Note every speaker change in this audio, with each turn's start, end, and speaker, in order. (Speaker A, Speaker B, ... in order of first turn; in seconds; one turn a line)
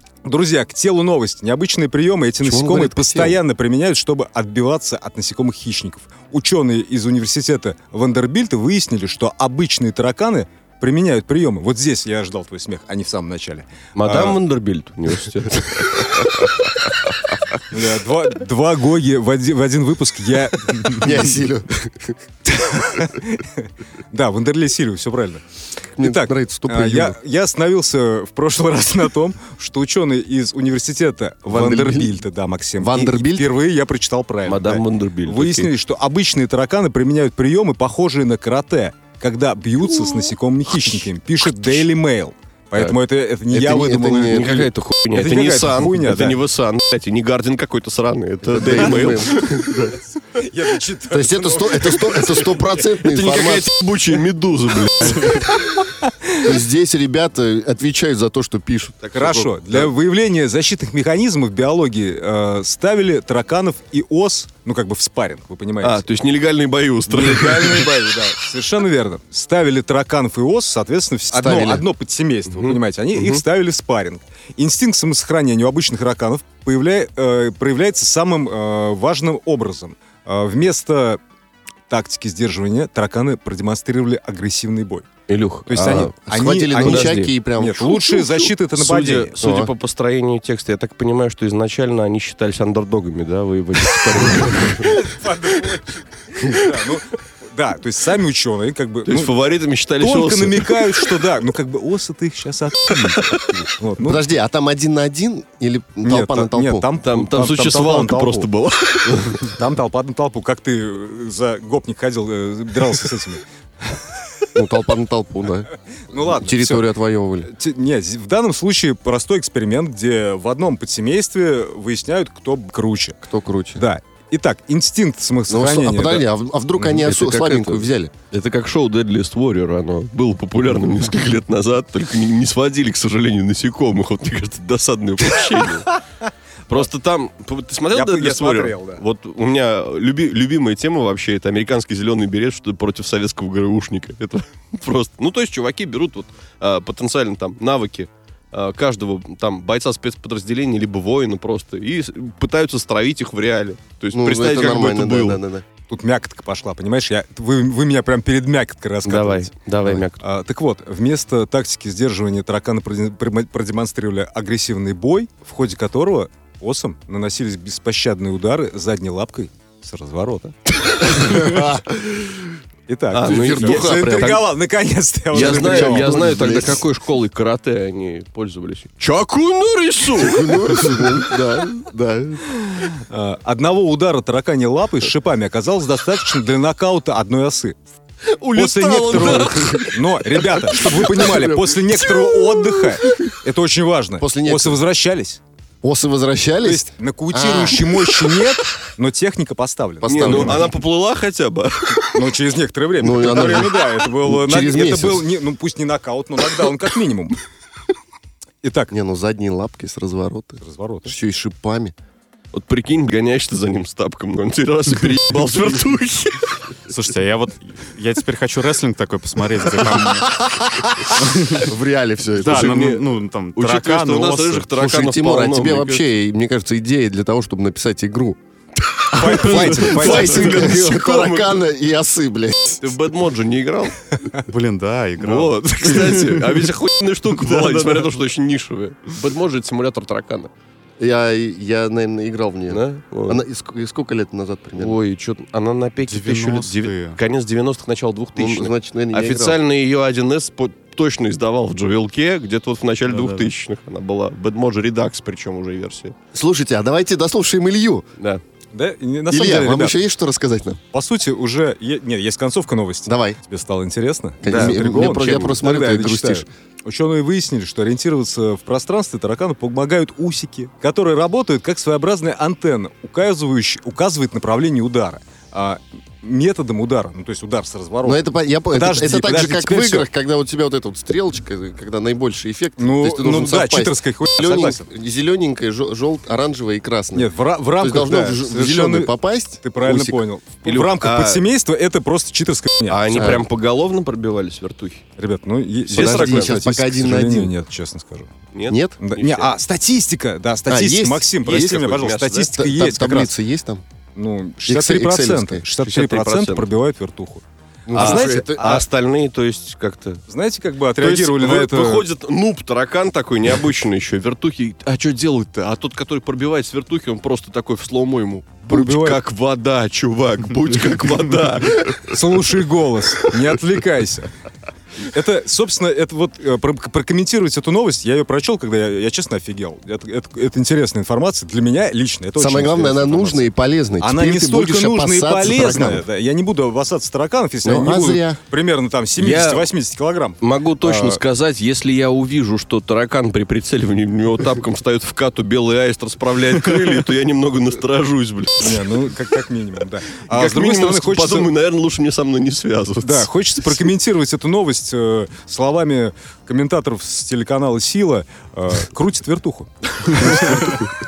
Speaker A: 0.2-14.4
Speaker B: 2.4-3.4
Speaker C: 13.9-16.5
Speaker A: 17.7-21.2
Speaker B: 20.9-22.2
Speaker A: 22.5-25.4
Speaker B: 26.0-27.2
Speaker A: 26.0-46.4
Speaker B: 31.5-32.1
Speaker B: 32.8-33.5
Speaker C: 34.5-35.7
Speaker B: 43.5-44.6
Speaker C: 44.3-49.9
Speaker B: 48.4-50.0
Speaker A: 50.3-52.6
Speaker B: 51.1-53.7
Speaker C: 53.0-55.5
Speaker A: 56.0-56.4
Speaker B: 56.4-59.4
Speaker C: 59.0-59.9
Speaker A: 59.1-66.0
Speaker C: 65.8-68.1
Speaker A: 67.1-81.2
Speaker B: 71.3-71.8
Speaker C: 72.5-73.4
Speaker A: 81.9-85.1
Speaker C: 85.3-86.1
Speaker A: 85.7-89.4
Speaker B: 85.8-88.5
Speaker C: 86.8-87.3
Speaker C: 88.7-95.1
Speaker B: 89.4-89.7
Speaker A: 94.8-99.3
Speaker C: 99.0-101.1
Speaker A: 100.0-104.2
Speaker C: 102.9-103.5
Speaker B: 104.0-106.9
Speaker A: 106.0-108.5
Speaker C: 107.0-109.5
Speaker A: 109.4-114.1
Speaker B: 114.5-117.5
Speaker A: 116.1-116.9
Speaker A: 117.4-123.2
Speaker B: 123.2-123.8
Speaker A: 123.8-126.3
Speaker B: 125.5-128.1
Speaker C: 126.9-135.9
Speaker C: 136.7-155.4
Speaker A: 137.9-139.0
Speaker B: 154.1-155.7
Speaker A: 155.9-159.5
Speaker C: 159.1-160.2
Speaker A: 160.2-170.5
Speaker C: 171.0-171.5
Speaker B: 171.1-172.5
Speaker A: 172.9-176.6
Speaker C: 173.1-174.4
Speaker B: 173.2-174.4
Speaker C: 175.3-181.3
Speaker B: 175.3-176.8
Speaker B: 180.1-182.5
Speaker A: 183.0-187.8
Speaker C: 188.2-191.6
Speaker A: 188.6-195.4
Speaker B: 189.4-189.7
Speaker B: 194.2-194.8
Speaker B: 195.8-198.2
Speaker A: 196.6-200.7
Speaker B: 200.0-200.7
Speaker C: 200.1-202.3
Speaker A: 202.1-207.4
Speaker B: 203.0-205.3
Speaker A: 208.6-208.9
Speaker B: 208.9-211.9
Speaker A: 210.6-211.2
Speaker C: 212.5-216.7
Speaker D: 216.9-220.4
Speaker D: 221.1-221.7
Speaker B: 221.5-222.9
Speaker D: 222.4-224.7
Speaker C: 222.4-226.1
Speaker B: 224.7-228.4
Speaker C: 229.1-231.6
Speaker A: 229.1-230.7
Speaker B: 229.2-232.9
Speaker C: 232.8-234.0
Speaker D: 234.4-236.7
Speaker C: 235.2-240.5
Speaker D: 237.3-238.1
Speaker B: 241.0-245.0
Speaker C: 242.7-243.4
Speaker C: 244.8-256.1
Speaker D: 246.1-247.2
Speaker B: 248.4-249.6
Speaker D: 253.1-253.5
Speaker B: 256.3-258.1
Speaker C: 258.2-258.4
Speaker A: 258.7-259.9
Speaker B: 259.3-260.8
Speaker A: 260.9-280.1
Speaker B: 263.1-263.4
Speaker B: 264.4-266.5
Speaker C: 264.4-265.5
Speaker B: 278.0-290.2
Speaker A: 282.8-284.8
Speaker A: 287.1-293.4
Speaker C: 290.6-291.4
Speaker C: 292.9-295.0
Speaker B: 293.1-293.4
Speaker A: 295.2-298.3
Speaker C: 295.9-296.6
Speaker B: 295.9-297.5
Speaker C: 298.5-299.5
Speaker B: 298.7-298.9
Speaker A: 299.0-303.3
Speaker B: 300.7-301.6
Speaker C: 301.4-302.5
Speaker B: 302.6-303.8
Speaker A: 304.1-308.9
Speaker B: 304.6-305.6
Speaker C: 305.8-306.7
Speaker B: 307.9-308.7
Speaker C: 307.9-310.2
Speaker A: 310.3-312.1
Speaker C: 311.0-322.4
Speaker A: 318.7-319.2
Speaker A: 321.9-324.3
Speaker A: 325.0-341.2
Speaker B: 332.4-336.1
Speaker B: 337.6-338.4
Speaker C: 339.2-339.7
Speaker C: 340.4-348.8
Speaker A: 348.6-351.5
Speaker C: 350.3-353.3
Speaker A: 353.0-360.9
Speaker C: 360.1-360.8